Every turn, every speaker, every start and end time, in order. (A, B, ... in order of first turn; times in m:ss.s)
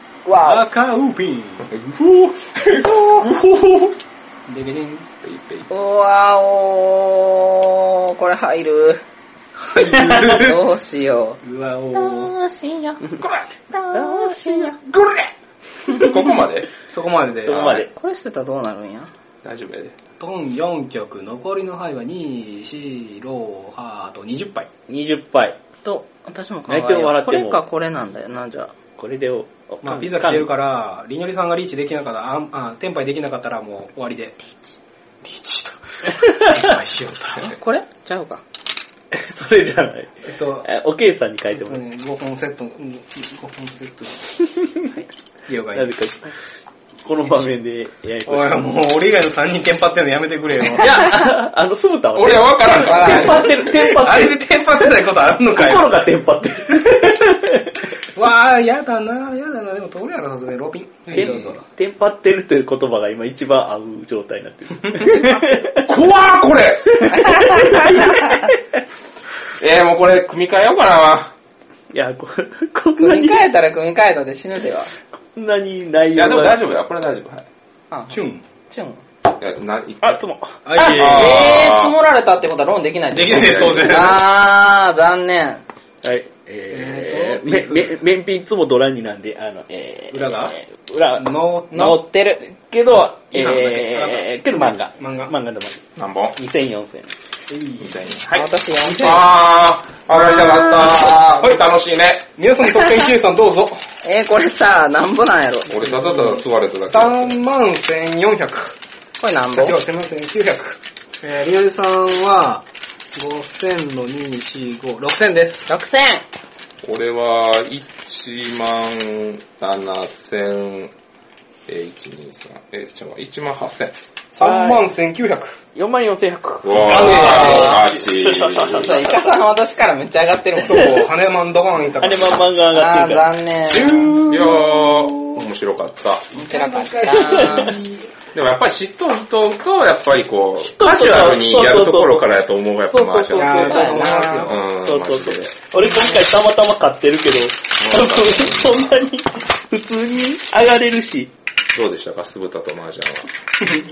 0:00.2-0:00.6 A
0:00.4-0:01.7 B
0:01.6-0:03.8 C
0:04.5-0:05.1 B
0:05.2-0:05.7 C
0:05.7-0:09.0 A
0:09.6-0:10.6 B
0:09.9-0:11.4 A
0:11.4-0:12.3 B
0:11.9-0:13.2 A
0:13.2-0:13.5 C
0:13.7-0:14.8 A
0:13.9-0:14.7 D
0:14.9-0:15.3 C
0:15.9-0:16.7 C
0:15.9-0:16.2 A
0:16.9-0:17.7 B
0:17.4-0:17.9 D
0:17.5-0:17.9 C
0:17.8-0:19.1 A
0:19.4-0:20.0 C
0:20.2-0:24.7 B
0:24.9-0:25.6 D
0:25.8-0:28.7 A
0:26.7-0:27.6 D
0:29.0-0:30.5 D
0:29.8-0:34.5 B
0:35.2-0:37.6 B
0:36.1-0:36.7 D
0:37.4-0:38.4 A
0:39.1-0:41.8 D
0:40.2-0:40.7 B
0:41.5-0:44.2 B
0:44.5-0:45.0 D
0:45.5-0:45.9 B
0:45.7-0:46.4 D
0:47.0-0:48.6 D
0:48.3-0:51.1 B
0:50.8-0:54.9 D
0:50.9-0:51.2 A
0:52.2-0:53.8 C
0:52.7-0:53.6 A
0:53.7-0:56.0 B
0:55.4-0:58.0 D
0:58.1-1:01.6 B
1:01.1-1:05.9 D
1:05.0-1:05.2 B
1:05.7-1:07.4 C
1:06.9-1:08.8 D
1:07.2-1:08.5 A
1:09.6-1:11.3 C
1:11.9-1:13.5 D
1:13.0-1:14.9 A
1:15.2-1:16.6 D
1:16.1-1:17.5 C
1:17.9-1:19.0 A
1:18.1-1:18.4 B
1:19.4-1:20.2 C
1:20.0-1:20.6 D
1:20.6-1:21.6 B
1:20.8-1:22.0 C
1:20.8-1:25.6 A
1:23.1-1:24.2 B
1:23.3-1:24.0 C
1:26.0-1:35.8 D
1:26.7-1:28.0 B
1:30.1-1:30.6 B
1:31.2-1:32.0 B
1:31.7-1:32.4 A
1:33.3-1:35.3 B
1:36.0-1:36.4 C
1:36.4-1:37.1 D
1:37.5-1:37.9 B
1:37.8-1:42.3 C
1:38.3-1:39.3 A
1:41.4-1:41.6 B
1:42.4-1:43.8 B
1:44.0-1:45.7 A
1:45.7-1:47.4 C
1:45.8-1:48.8 B
1:49.2-1:49.8 A
1:49.5-1:55.7 B
1:55.7-1:56.2 A
1:56.8-2:00.9 C
2:01.7-2:04.0 C
2:04.3-2:05.6 B
2:04.4-2:04.8 D
2:05.7-2:09.4 D
2:06.6-2:09.0 C
2:06.8-2:07.8 B
2:06.9-2:07.8 A
2:08.8-2:11.0 A
2:10.6-2:12.5 B
2:10.7-2:11.1 D
2:12.0-2:13.3 D
2:12.7-2:14.2 A
2:13.7-2:15.1 B
2:14.3-2:16.3 C
2:16.3-2:17.8 A
2:16.4-2:18.0 B
2:17.1-2:17.8 D
2:18.3-2:25.6 C
2:20.6-2:22.4 D
2:22.9-2:31.3 D
2:23.3-2:24.6 B
2:23.6-2:24.6 A
2:27.8-2:29.0 C
2:31.7-2:33.3 C